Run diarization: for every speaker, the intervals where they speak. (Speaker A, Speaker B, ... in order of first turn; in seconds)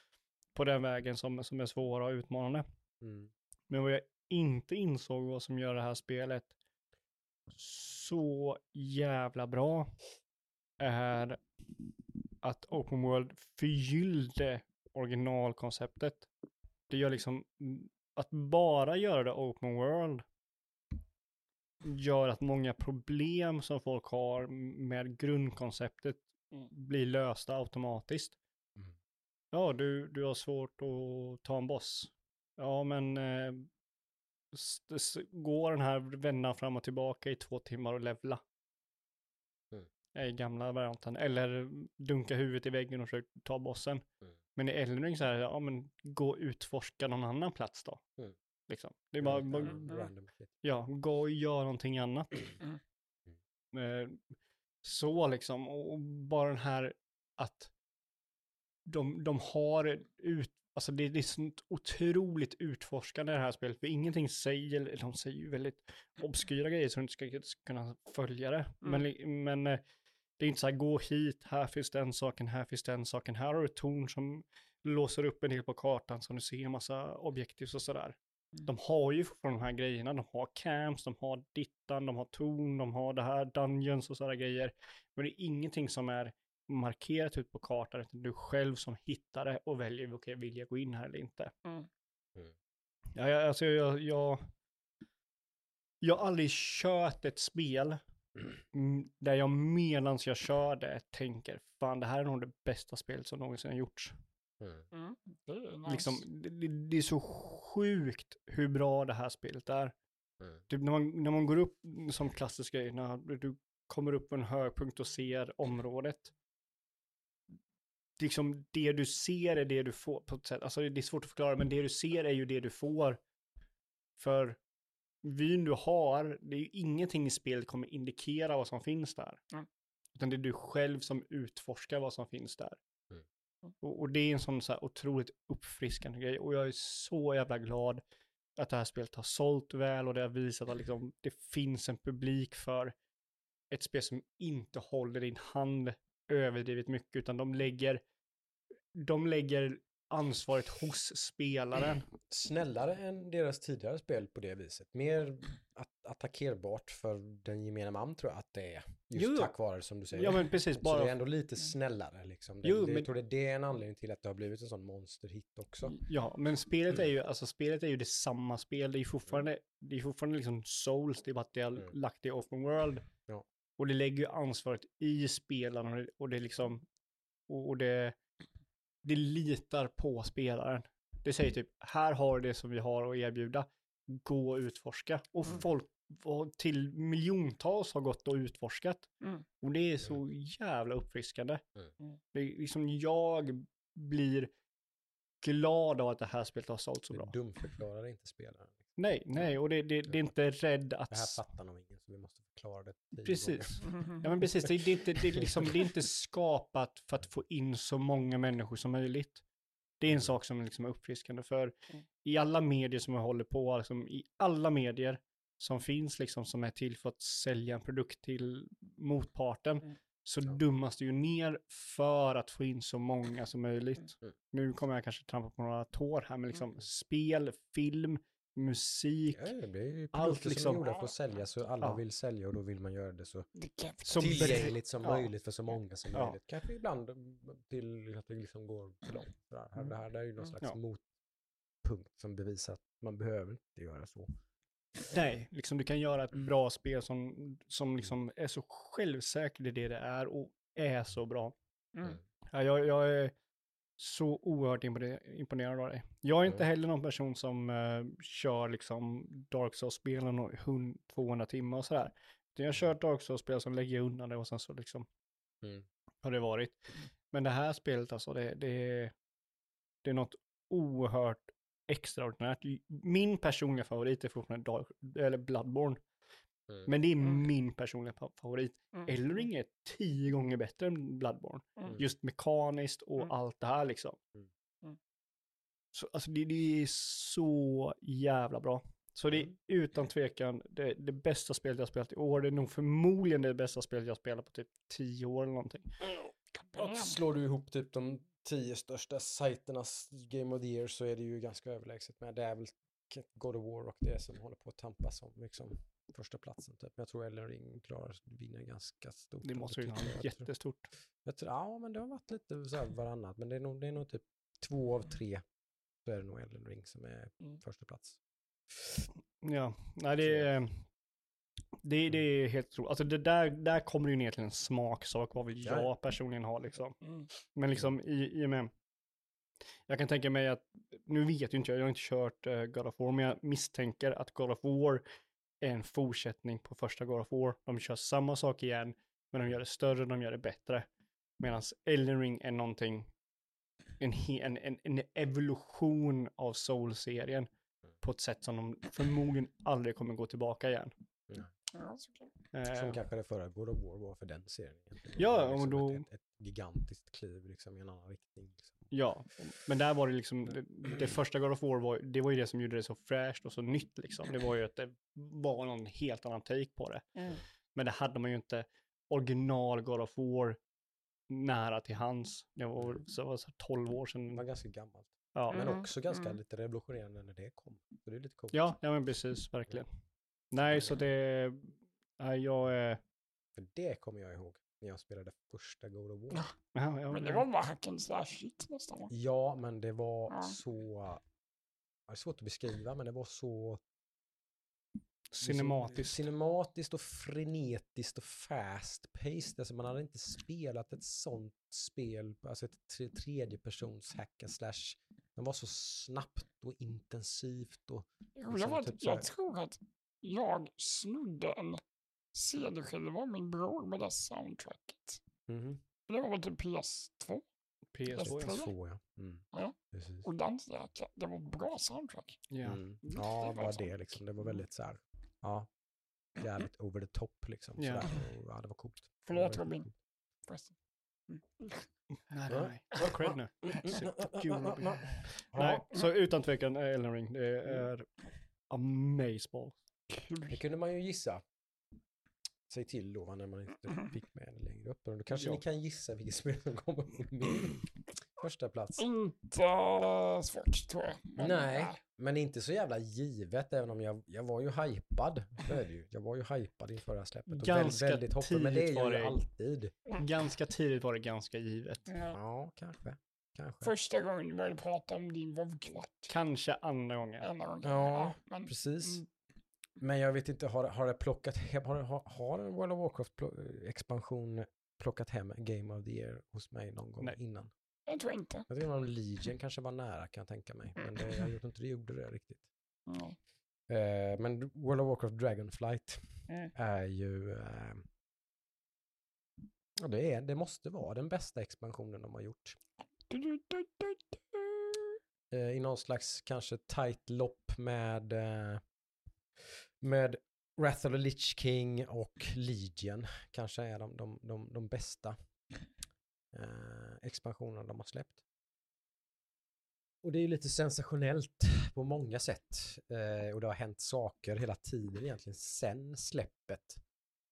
Speaker A: 0.5-2.6, 3.7-6.5, 7.5-9.9, 10.8-11.4, 12.4-16.3, 16.9-20.2, 21.8-28.4, 29.5-33.7, 34.5-38.4, 40.1-48.0, 48.7-49.9, 50.6-52.4, 53.7-54.2, 54.8-57.7, 58.9-69.8, 70.4-91.5, 93.2-94.5, 96.0-98.0, 98.7-104.2, 105.9-109.9, 110.7-116.3, 118.2-123.2, 124.2-124.6, 125.2-129.4, 130.2-132.8, 133.8-138.0, 138.6-142.9, 143.7-148.0, 148.9-152.1, 159.2-159.5, 160.1-161.1, 162.6-163.1, 166.0-173.1, 173.8-176.9, 177.5-178.2, 179.0-189.1, 189.6-191.6, 192.3-194.5, 195.4-197.3, 199.0-201.4, 203.2-209.4, 210.0-229.5, 230.1-230.8, 234.1-235.3, 245.1-251.6, 252.5-253.3, 254.0-265.1, 266.2-269.1, 270.0-276.0, 276.9-284.2, 285.9-295.9, 309.4-310.9, 319.4-320.9, 321.8-327.0, 327.5-328.7, 329.9-335.0, 335.6-340.9, 341.4-343.1, 344.0-347.5, 348.0-350.9, 352.5-353.0, 355.2-356.1, 358.9-367.1, 367.7-370.6, 371.3-374.4, 375.3-375.7, 378.5-379.9, 380.5-383.0, 386.8-387.4, 395.3-396.2, 417.9-418.5, 422.5-422.8, 427.8-428.1, 432.3-438.1, 438.7-439.8, 445.3-445.6, 457.5-459.4, 460.2-462.1, 466.3-467.5
Speaker B: 3.0-3.3, 49.2-50.5, 104.6-104.9, 152.3-166.0, 197.1-199.4, 201.1-203.9, 204.4-205.8, 229.3-233.5, 234.2-241.0, 241.8-244.3, 296.8-310.5, 311.2-315.4, 316.1-318.2, 318.8-319.0, 320.2-320.5, 325.6-325.9, 352.7-358.9, 374.3-378.7, 383.6-386.5, 389.1-391.2, 392.1-393.8, 395.4-409.3, 415.5-415.8, 418.2-420.3, 422.6-425.7, 426.4-429.9, 432.5-435.9, 440.5-441.4, 442.7-449.1, 451.4-459.9, 462.3-463.9, 467.8-469.2, 470.0-477.7, 478.7-482.6, 483.9-488.1, 490.0-492.8, 495.5-498.8, 499.6-505.4, 506.5-508.4, 510.2-517.0
Speaker C: 49.6-50.1, 104.9-106.2, 230.8-231.1, 233.6-234.6, 251.9-252.2, 296.6-297.2, 327.0-327.3, 351.7-352.4, 375.5-376.4, 387.1-389.1, 390.3-390.6, 408.4-411.8, 412.3-415.2, 416.1-417.4, 418.1-418.7, 419.5-422.4, 423.0-424.6, 429.2-429.9, 430.5-430.8, 431.3-431.9, 440.1-440.6, 449.0-452.0, 462.1-462.4, 463.8-466.3, 467.4-469.3, 478.1-478.7, 483.1-483.4, 493.3-495.2